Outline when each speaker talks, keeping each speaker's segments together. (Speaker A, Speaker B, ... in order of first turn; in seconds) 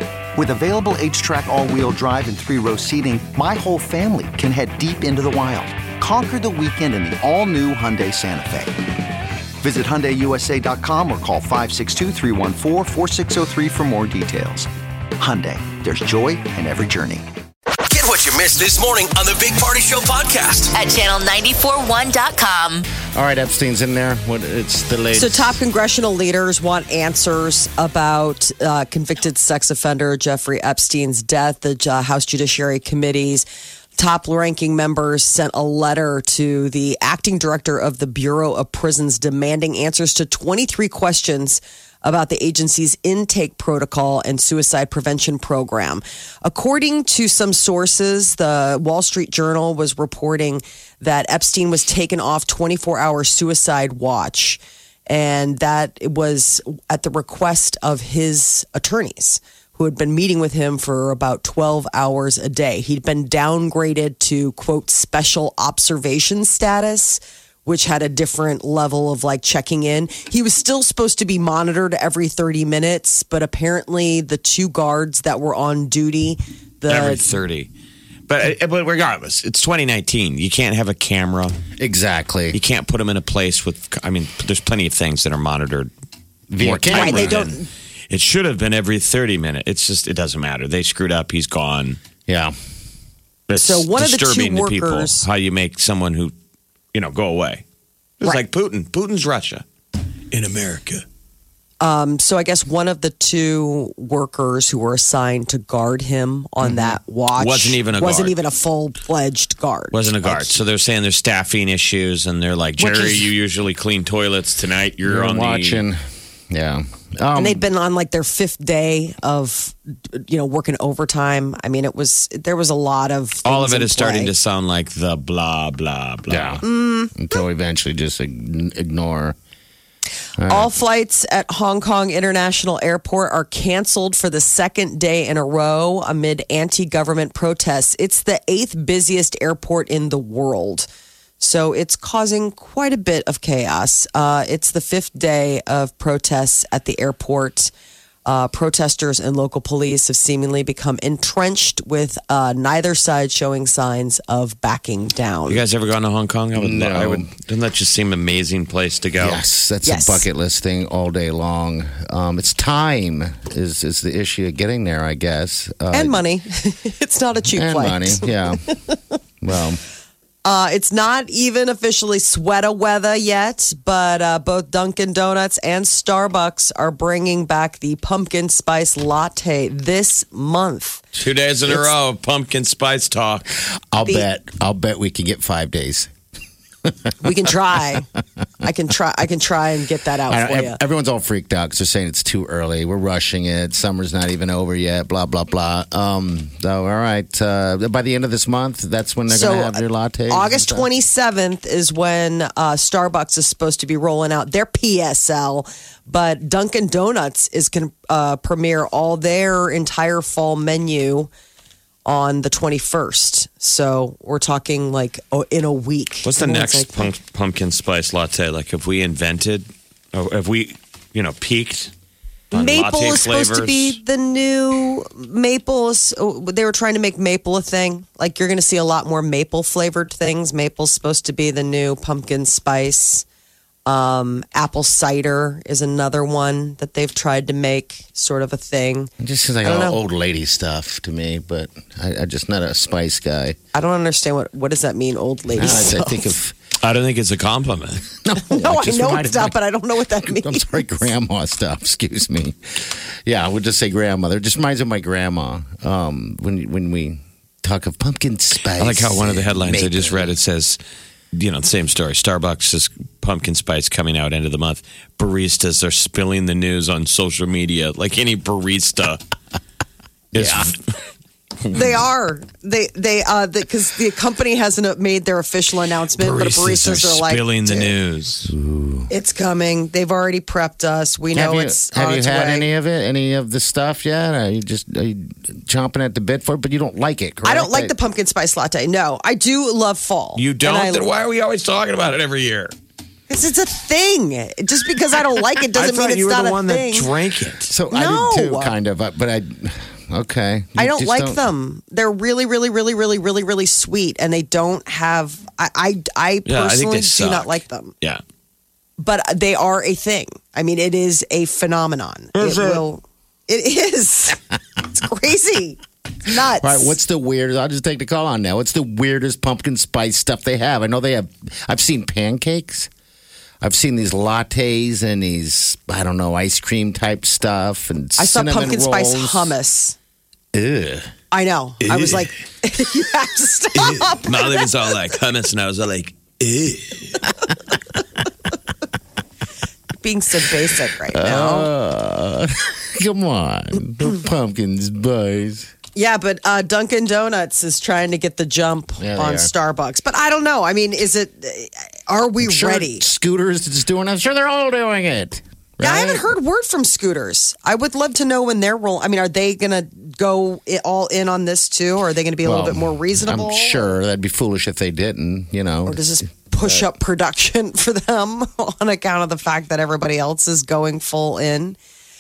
Speaker A: 0.3-8.8, 9.6-17.2
Speaker B: 17.8-20.7
Speaker C: 20.7-22.9
Speaker D: 23.1-25.6, 81.8-82.6, 86.5-87.4, 92.3-92.5, 110.2-110.6, 112.8-113.3, 115.0-116.0, 116.5-117.6, 126.3-129.4, 130.4-130.7, 156.6-157.3, 159.2-166.2, 167.5-168.6, 169.4-169.8, 183.9-186.1, 186.8-187.3, 190.3-200.9, 239.2-243.6, 245.6-246.6, 248.2-249.6, 250.2-260.3, 270.3-270.7, 278.5-279.1, 281.3-287.9, 297.7-301.4, 316.6-322.9, 323.6-329.5, 330.5-331.1, 341.1-345.7, 349.0-349.5, 352.4-356.3, 362.4-366.0
Speaker E: 25.1-77.2, 86.9-87.7, 93.6-95.3, 101.8-110.1, 117.4-124.3, 126.6-127.2, 130.5-140.9, 141.4-147.7, 148.3-155.6, 159.8-160.2, 165.9-169.0, 170.4-181.0, 187.2-188.1, 188.6-190.8, 199.3-211.3, 212.1-217.1, 222.5-233.2, 233.9-239.1, 239.6-240.0, 243.7-246.3, 248.4-250.9, 271.7-277.9, 279.1-282.7, 287.4-291.1, 293.3-297.1, 297.9-298.7, 300.8-307.9, 309.0-317.0, 328.2-330.0, 331.3-334.6, 340.0-341.7, 345.9-353.1, 355.8-363.9, 365.9-371.8
Speaker F: 76.9-77.7, 78.3-81.5, 82.5-85.9, 86.6-87.6, 88.1-92.0, 93.5-96.3, 96.9-97.6, 98.2-99.7, 100.3-101.0, 107.4-108.4, 109.9-115.8, 123.5-126.6, 155.5-159.4, 181.2-183.5, 216.2-221.9, 222.5-224.0, 246.8-248.1, 258.8-260.8, 261.3-269.2, 270.3-270.8, 276.2-278.5, 290.4-292.7, 295.7-297.7, 306.5-308.2, 312.4-312.8, 331.8-332.3, 333.8-337.3